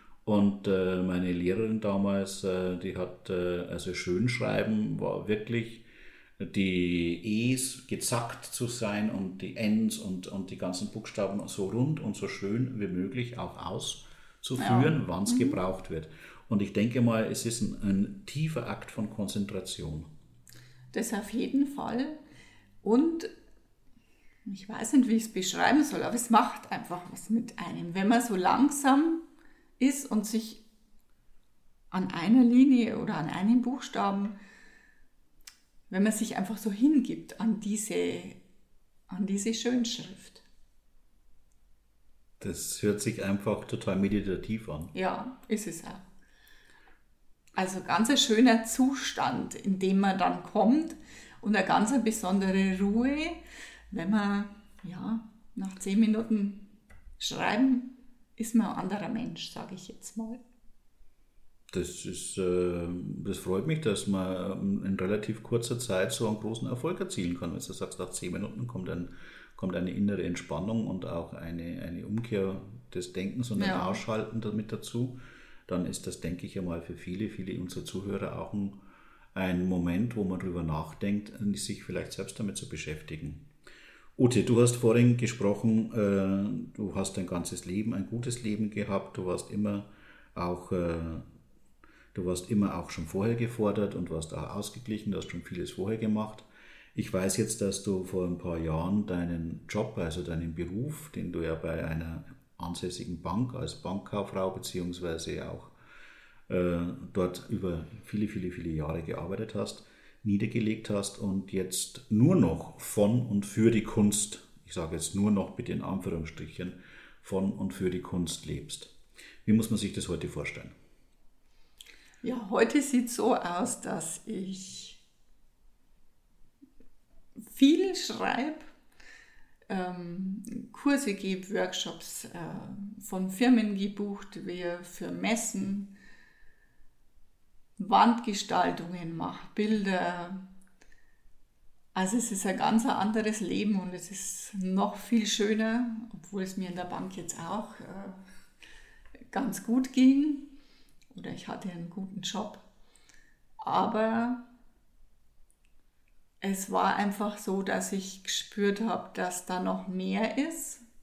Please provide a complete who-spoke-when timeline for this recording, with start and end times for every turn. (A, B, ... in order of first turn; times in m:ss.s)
0:00.2-0:05.8 A
0:06.4-0:20.1 A
0:14.6-0:15.6 B
0:20.9-0:22.2 B
0:22.8-0:23.3 B
0:24.5-0:29.3 B
0:29.8-0:30.6 B
0:31.9-0:34.4 B
0:35.9-0:38.4 B
0:39.1-0:40.4 B
0:42.4-0:44.9 A
0:44.9-0:46.0 B
0:47.6-0:56.7 B
0:57.2-1:00.4 B
1:01.7-1:18.8 A
1:13.6-1:14.0 B
1:19.3-1:23.4 A
1:24.2-1:31.2 A
1:32.1-1:45.7 A
1:46.5-1:58.9 A
1:59.4-2:00.8 A
2:02.2-2:05.0 B
2:07.5-2:08.7 B
2:09.7-2:15.9 B
2:17.8-2:20.4 B
2:21.9-2:28.2 B
2:29.3-2:30.5 B
2:31.1-2:32.6 B
2:33.6-2:34.4 B
2:36.4-2:40.8 B